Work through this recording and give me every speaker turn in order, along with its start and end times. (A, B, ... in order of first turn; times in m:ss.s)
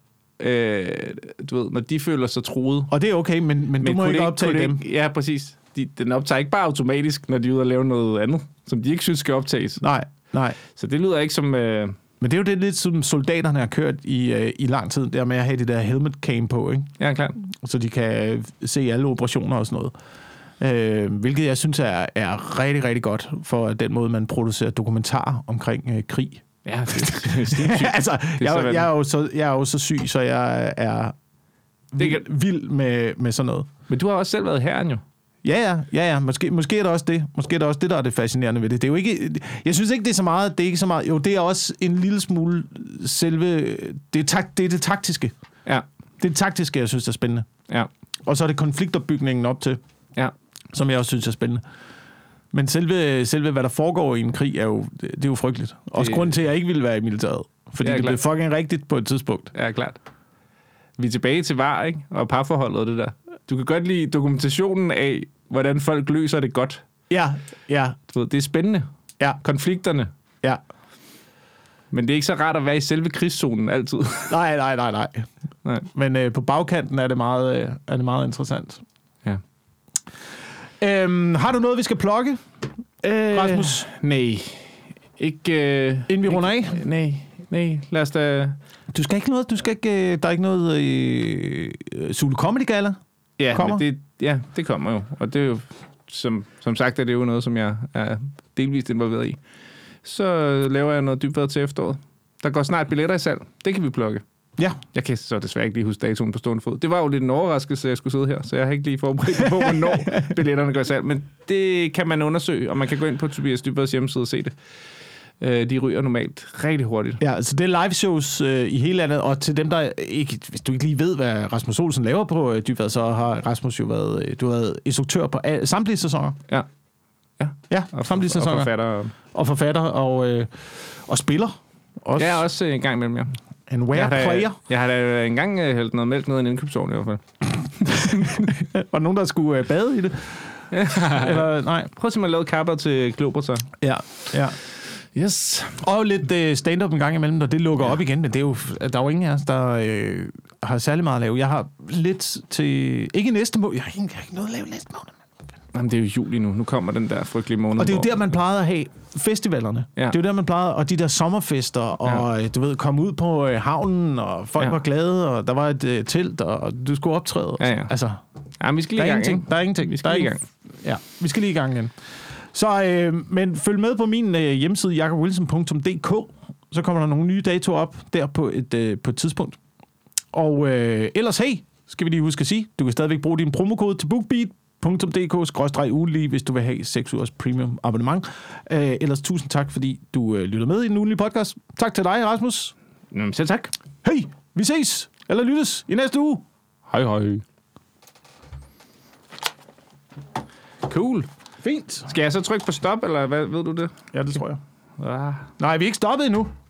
0:00.4-0:02.9 A
0:02.9-0:04.8 B
0:03.8-0:09.8 A
0:09.8-0:10.6 B
0:10.7-0:12.0 A
0:12.2-0:19.9 B
0:17.0-0:17.4 A
0:20.6-0:31.2 B
0:26.6-0:28.9 A
0:31.9-0:33.7 B
0:33.9-0:35.0 A
0:35.4-0:45.3 B
0:46.2-0:47.5 B
0:48.3-0:49.8 B
0:50.7-0:51.6 B
0:52.5-0:59.5 B
0:56.0-0:56.3 A
0:57.8-0:58.2 A
0:59.5-1:00.0 A
1:01.0-1:06.8 A
1:07.1-1:08.0 B
1:08.1-1:08.9 A
1:09.4-1:10.1 A
1:11.9-1:14.3 A
1:14.3-1:15.3 B
1:15.9-1:18.8 B
1:20.8-1:22.4 B
1:23.0-1:28.6 A
1:23.3-1:23.9 B
1:26.1-1:26.8 B
1:28.9-1:33.0 B
1:33.4-1:39.4 A
1:33.5-1:33.8 B
1:40.0-1:44.2 A
1:44.9-1:54.6 A
1:49.4-1:50.3 B
1:55.4-1:57.2 A
1:57.2-2:06.4 B
2:07.4-2:09.1 A
2:07.7-2:08.7 B
2:09.3-2:12.4 B
2:12.2-2:13.3 A
2:13.7-2:14.6 B
2:13.9-2:18.6 A
2:18.2-2:21.9 B
2:20.7-2:23.7 A
2:23.8-2:24.6 B
2:25.1-2:25.8 A
2:25.8-2:35.2 B
2:35.7-2:38.1 A
2:37.8-2:48.2 B
2:47.6-2:47.9 A
2:48.6-2:50.4 A
2:49.0-2:51.9 B
2:52.5-2:59.6 B
3:00.3-3:12.7 B
3:13.1-3:13.7 A
3:14.0-3:16.4 B
3:16.9-3:17.4 A
3:20.8-3:21.3 A
3:21.6-3:22.1 B
3:22.1-3:23.9 A
3:24.1-3:24.6 B
3:25.0-3:25.5 A
3:25.6-3:26.5 B